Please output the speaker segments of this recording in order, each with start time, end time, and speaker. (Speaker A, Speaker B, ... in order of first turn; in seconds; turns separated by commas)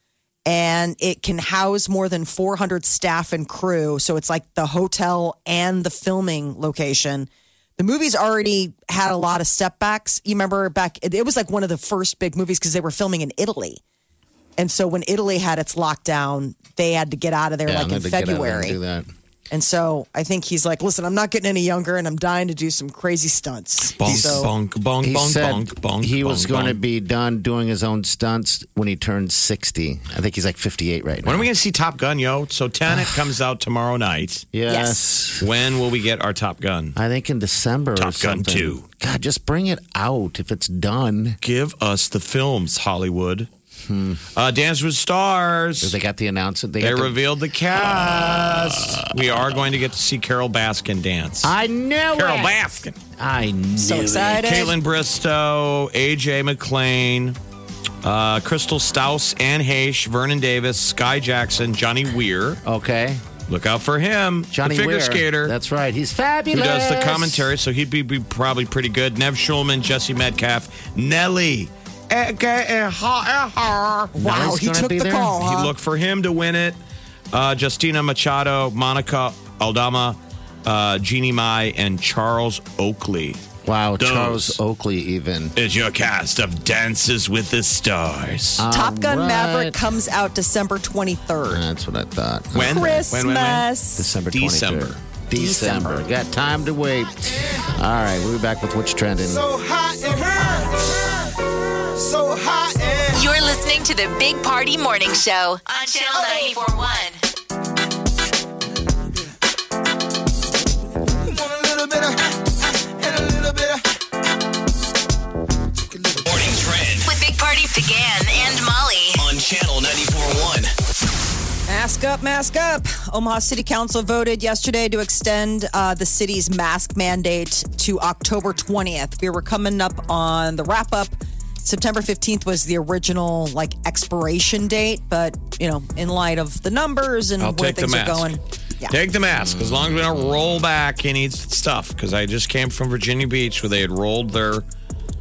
Speaker A: 0.5-13.8, Speaker A: 14.6-18.8, Speaker B: 17.7-19.1, Speaker A: 19.5-24.5, Speaker C: 24.0-26.8, Speaker B: 24.0-24.5, Speaker B: 25.0-31.5, Speaker C: 31.2-34.5, Speaker B: 34.5-35.5, Speaker A: 34.7-35.0, Speaker C: 35.4-37.0, Speaker B: 36.9-41.4, Speaker C: 38.0-38.8, Speaker C: 41.4-43.5, Speaker B: 43.8-44.2, Speaker C: 44.3-45.9, Speaker B: 45.8-47.2, Speaker C: 46.8-51.5, Speaker B: 47.7-49.4, Speaker B: 51.4-52.5, Speaker C: 52.1-53.0, Speaker B: 53.1-54.5, Speaker A: 53.8-54.7, Speaker C: 54.3-57.4, Speaker C: 58.0-62.6, Speaker B: 62.6-63.2, Speaker C: 63.5-65.5, Speaker B: 64.5-67.5, Speaker C: 66.5-74.1, Speaker A: 74.1-75.7, Speaker B: 74.2-75.4, Speaker C: 75.4-76.8, Speaker C: 77.3-83.4, Speaker B: 83.6-85.5, Speaker C: 84.0-84.6, Speaker C: 85.5-88.7, Speaker B: 88.6-89.8, Speaker A: 88.7-91.6, Speaker B: 91.5-93.0, Speaker C: 92.5-93.7, Speaker A: 92.6-94.1, Speaker B: 94.0-99.5, Speaker C: 94.3-95.0, Speaker A: 95.3-96.0, Speaker D: 99.4-100.5, Speaker D: 102.0-103.1, Speaker E: 103.1-107.2, Speaker D: 111.3-112.1, Speaker D: 113.0-113.8, Speaker F: 116.2-117.1, Speaker E: 117.0-119.2, Speaker F: 119.2-120.7, Speaker A: 121.7-139.0, Speaker C: 137.4-138.3, Speaker C: 138.9-144.7, Speaker B: 139.3-140.6